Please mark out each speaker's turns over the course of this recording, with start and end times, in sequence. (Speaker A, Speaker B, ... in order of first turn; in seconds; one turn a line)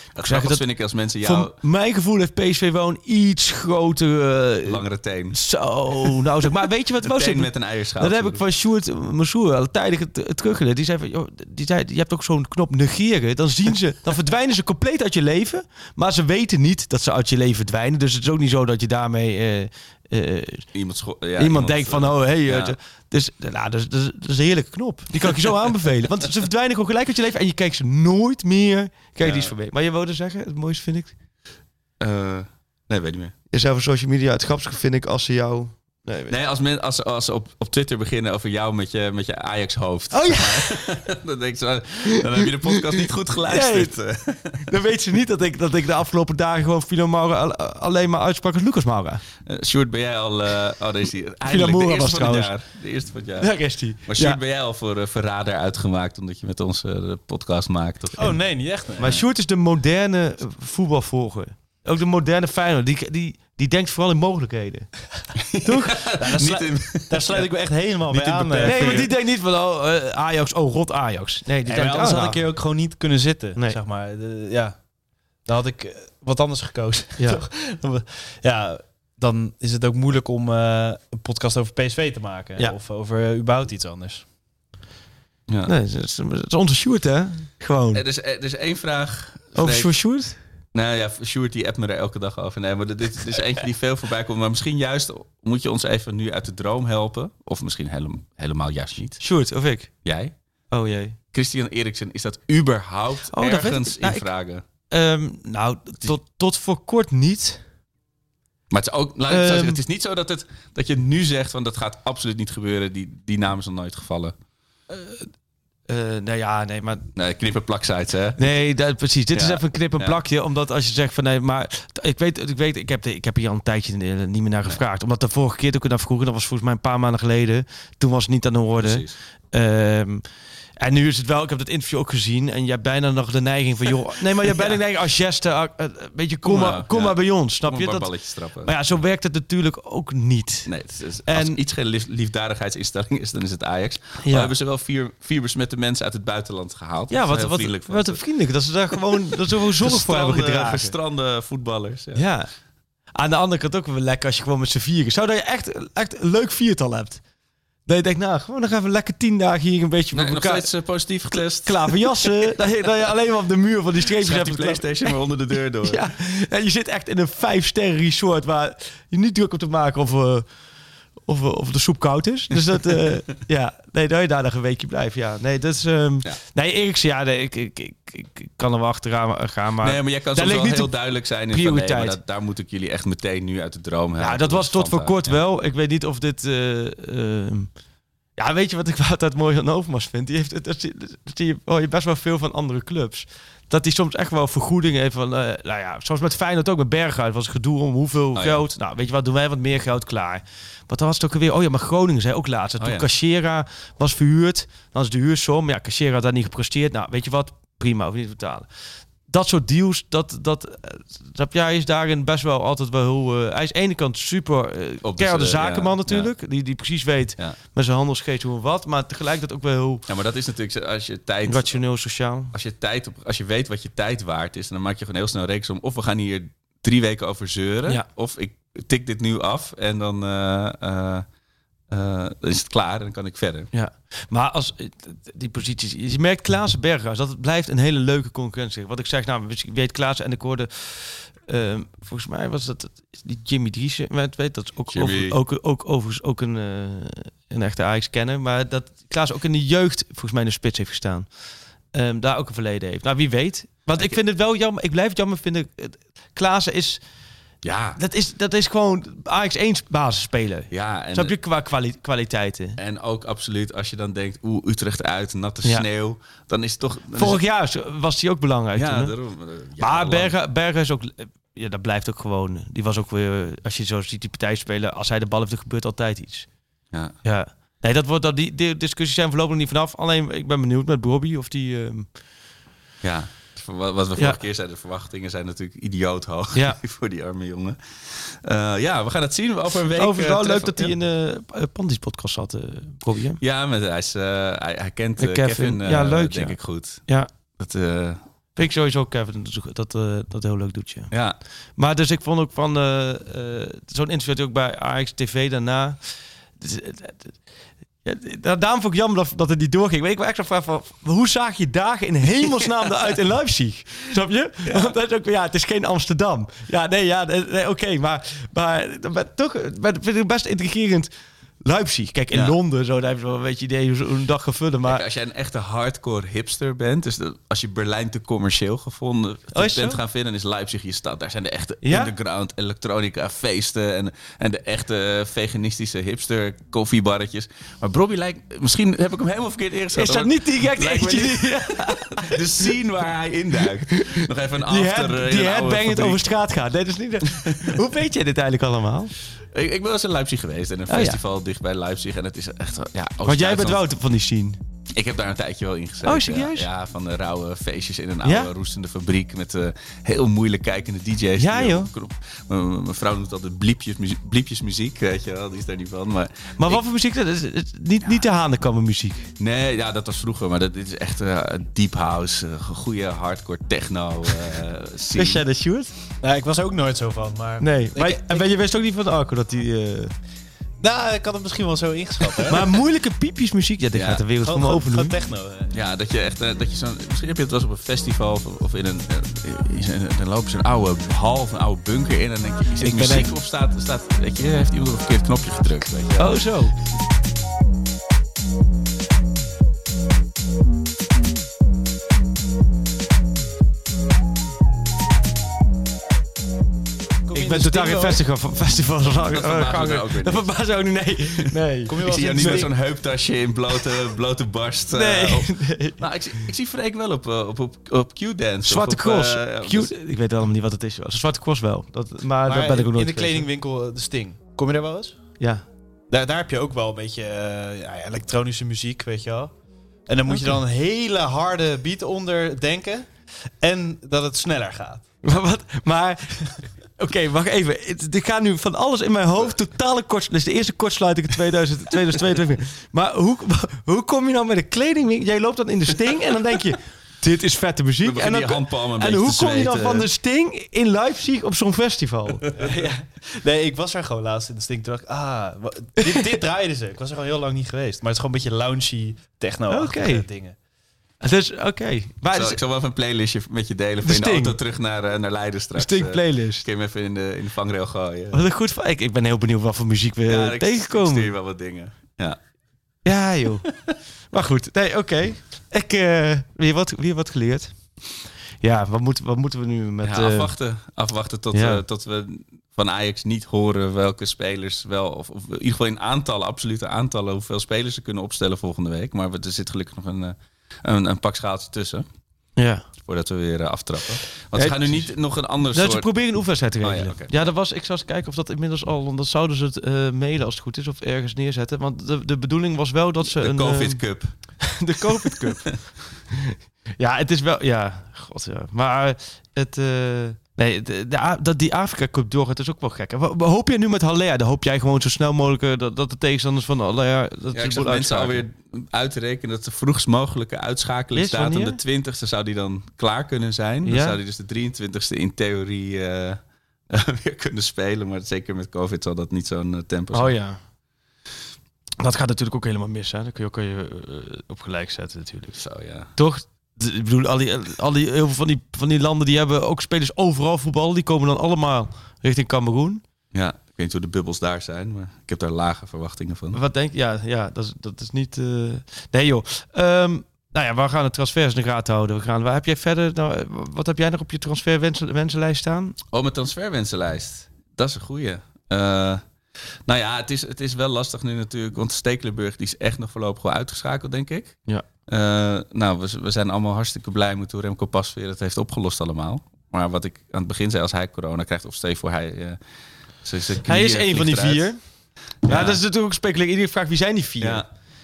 Speaker A: 0.1-1.6
Speaker B: 0.2-0.7
Speaker B: 1.2-20.6
Speaker A: 4.7-5.4
Speaker A: 7.0-8.4
Speaker A: 20.7-22.8
Speaker B: 21.4-31.1
Speaker A: 29.2-29.5
Speaker A: 32.0-33.3
Speaker B: 33.5-36.3
Speaker A: 36.3-44.6
Speaker B: 40.1-41.0
Speaker B: 42.1-42.7
Speaker B: 43.5-44.0
Speaker B: 44.6-49.2
Speaker A: 49.4-58.4
Speaker B: 51.4-52.5
Speaker B: 53.4-54.4
Speaker C: 58.2-59.2
Speaker B: 59.0-66.6
Speaker A: 65.4-69.1
Speaker C: 66.3-69.1
Speaker B: 68.6-72.5
Speaker C: 71.7-84.3
Speaker B: 73.5-73.8
Speaker B: 77.2-77.4
Speaker B: 85.6-88.0
Speaker A: 87.9-90.0
Speaker B: 89.5-90.4
Speaker A: 90.7-99.2
Speaker B: 99.2-99.9
Speaker A: 100.0-100.3
Speaker B: 100.7-101.2
Speaker A: 101.3-104.6
Speaker B: 103.3-104.3
Speaker B: 104.9-107.6
Speaker A: 108.7-114.4
Speaker B: 109.3-109.8
Speaker B: 114.9-115.3
Speaker B: 115.9-117.1
Speaker A: 117.1-118.6
Speaker B: 118.4-130.2
Speaker A: 119.3-120.2
Speaker A: 128.8-129.1
Speaker B: 130.8-141.6
Speaker A: 134.4-134.8
Speaker A: 136.4-138.9
Speaker A: 140.7-148.2
Speaker B: 144.2-144.5
Speaker B: 147.1-150.9
Speaker A: 149.6-152.2
Speaker B: 152.1-152.5
Speaker B: 153.1-157.2
Speaker B: 157.9-160.7
Speaker A: 160.1-162.7
Speaker B: 161.5-165.2
Speaker A: 164.2-166.0
Speaker B: 165.8-170.4
Speaker B: 171.2-182.2
Speaker A: 172.6-173.1
Speaker A: 179.8-185.4
Speaker B: 184.2-187.7
Speaker B: 188.4-208.7
Speaker A: 198.3-198.6
Speaker A: 202.8-203.1
Speaker B: 209.3-220.1
Speaker A: 215.0-216.3
Speaker A: 220.1-221.8
Speaker B: 221.4-222.5
Speaker A: 222.5-231.2
Speaker A: 231.9-233.7
Speaker B: 233.7-251.3
Speaker A: 244.9-245.4
Speaker B: 251.9-257.0
Speaker A: 257.6-258.0
Speaker B: 257.9-262.8
Speaker A: 260.7-261.4
Speaker A: 262.8-267.4
Speaker B: 267.1-269.1
Speaker A: 268.8-270.3
Speaker B: 269.8-276.5
Speaker B: 277.2-282.1
Speaker A: 283.0-290.9
Speaker B: 286.5-286.8
Speaker B: 289.9-293.4
Speaker A: 293.4-297.1
Speaker B: 295.2-297.3
Speaker A: 297.6-298.2
Speaker B: 298.6-301.1
Speaker A: 301.1-301.4
Speaker B: 301.8-306.1
Speaker B: 306.6-307.4
Speaker B: 308.0-321.1
Speaker A: 314.6-314.9
Speaker B: 321.6-325.0
Speaker A: 322.3-322.6
Speaker A: 324.9-346.2
Speaker B: 329.5-330.0
Speaker B: 331.8-332.1
Speaker B: 339.9-342.7
Speaker B: 343.9-349.1
Speaker A: 347.4-347.8
Speaker A: 349.5-353.8
Speaker B: 350.9-351.2
Speaker B: 353.2-354.6
Speaker A: 354.9-366.8
Speaker B: 356.0-356.7
Speaker B: 358.2-358.5
Speaker B: 361.4-361.9
Speaker B: 366.6-369.3
Speaker A: 369.4-375.4
Speaker B: 375.1-375.9
Speaker C: 376.2-378.4
Speaker B: 377.6-380.1
Speaker C: 380.8-382.7
Speaker B: 382.5-385.1
Speaker A: 383.9-384.2
Speaker C: 384.4-385.7
Speaker A: 385.7-396.4
Speaker B: 392.8-393.3
Speaker B: 396.1-396.7
Speaker C: 407.3-408.2
Speaker B: 407.3-412.7
Speaker A: 409.1-410.6
Speaker C: 411.9-412.8
Speaker A: 411.9-419.9
Speaker B: 414.9-416.1
Speaker B: 418.6-423.5
Speaker C: 422.4-425.4
Speaker B: 425.4-425.6
Speaker C: 426.1-435.2
Speaker B: 430.3-430.6
Speaker B: 435.2-452.9
Speaker A: 448.0-450.1
Speaker C: 452.6-460.6
Speaker B: 459.7-460.2
Speaker B: 461.2-462.6
Speaker A: 462.3-468.4
Speaker B: 464.0-464.6
Speaker B: 465.7-466.6
Speaker B: 468.3-471.3
Speaker A: 470.2-472.4
Speaker B: 473.1-473.6
Speaker B: 474.3-477.9
Speaker B: 478.6-480.5
Speaker A: 480.0-492.1
Speaker B: 481.5-481.8
Speaker B: 492.6-492.9
Speaker A: 493.0-496.1
Speaker B: 494.5-504.1
Speaker A: 496.8-497.5
Speaker A: 503.2-504.3
Speaker B: 504.6-518.5
Speaker A: 505.0-505.7
Speaker A: 517.5-530.3
Speaker B: 521.1-521.8
Speaker B: 523.8-524.2
Speaker B: 530.1-530.6
Speaker B: 532.0-535.6
Speaker A: 535.5-536.1
Speaker B: 536.1-543.0
Speaker A: 543.3-546.6
Speaker B: 546.5-556.0
Speaker A: 556.1-559.2
Speaker A: 559.9-572.6
Speaker A: 573.2-574.7
Speaker B: 573.6-574.8
Speaker A: 575.4-575.8
Speaker B: 575.4-577.6
Speaker A: 577.4-577.7